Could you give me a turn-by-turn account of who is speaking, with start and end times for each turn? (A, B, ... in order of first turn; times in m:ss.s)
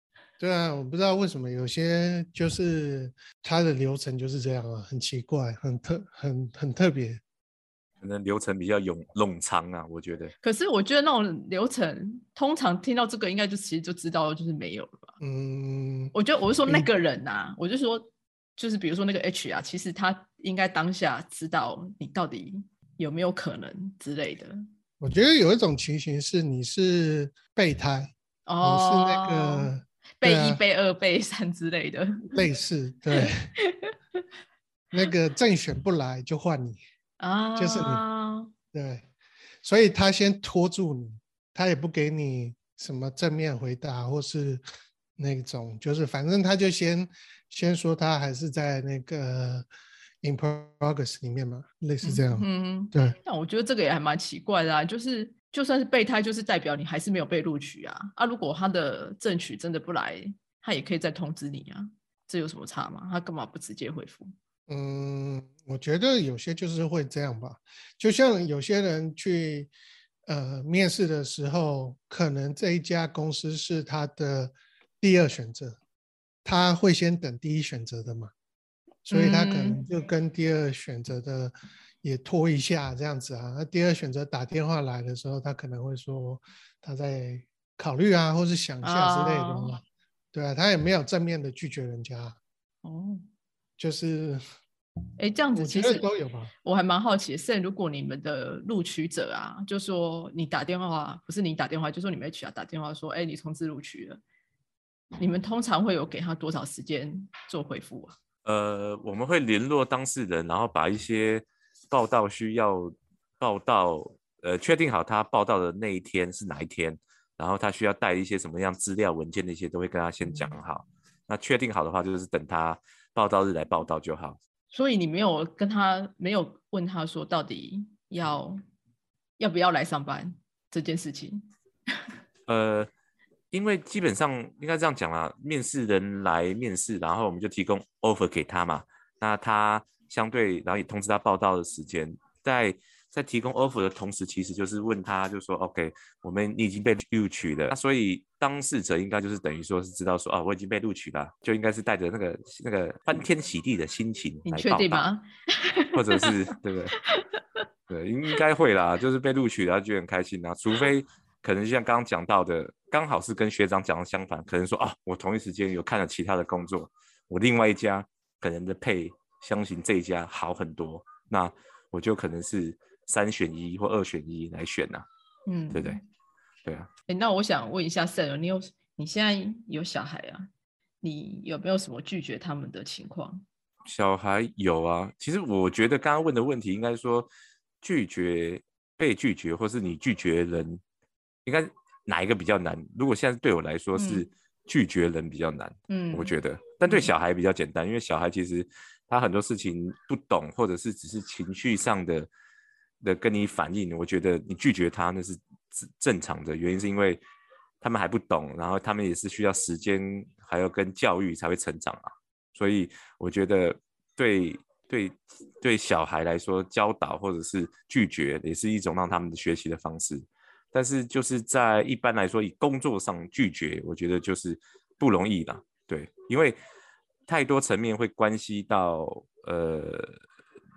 0:00.4-0:07.2 A
0:08.0-0:10.3 B
0:10.4-0:15.1 C
0:15.2-0:16.1 A
0:16.1-0:24.6 C
0:25.0-0:30.6 A
0:28.5-0:29.7 C
0:30.2-0:32.4 C
0:32.3-0:33.5 A
0:33.2-0:34.2 C
0:34.9-0:36.8 A
0:37.2-0:38.5 C
0:37.6-0:38.0 A
0:38.7-0:39.1 A
0:39.6-0:44.6 A
0:45.2-0:49.7 A
0:50.2-0:53.2 A
0:52.0-1:04.3 C
1:04.7-1:09.7 A
1:10.3-1:15.8 A
1:16.4-1:18.3 A
1:19.1-1:29.8 A
1:19.1-1:19.8 C
1:28.8-1:29.7 C
1:30.3-1:32.4 A
1:32.8-1:33.3 C
1:33.8-1:34.4 A
1:35.2-1:36.0 C
1:35.6-1:36.5 A
1:36.6-1:44.2 C
1:45.2-1:48.2 C
1:48.4-2:04.4 B
2:04.7-2:08.6 C
2:09.4-2:12.1 C
2:12.5-2:12.9 B
2:13.5-2:35.1 B
2:34.5-2:36.3 C
2:35.9-2:37.0 B
2:37.0-2:37.6 C
2:37.9-2:55.0 B
2:55.5-2:56.0 C
2:55.7-2:56.0 B
2:57.1-3:00.5 C
3:01.0-3:03.4 C
3:03.9-3:07.3 B
3:07.8-3:10.8 B
3:11.4-3:22.3 B
3:14.0-3:14.3 C
3:15.9-3:16.3 C
3:16.8-3:17.1 C
3:23.0-3:27.2 B
3:27.8-3:46.6 B
3:47.3-3:50.2 B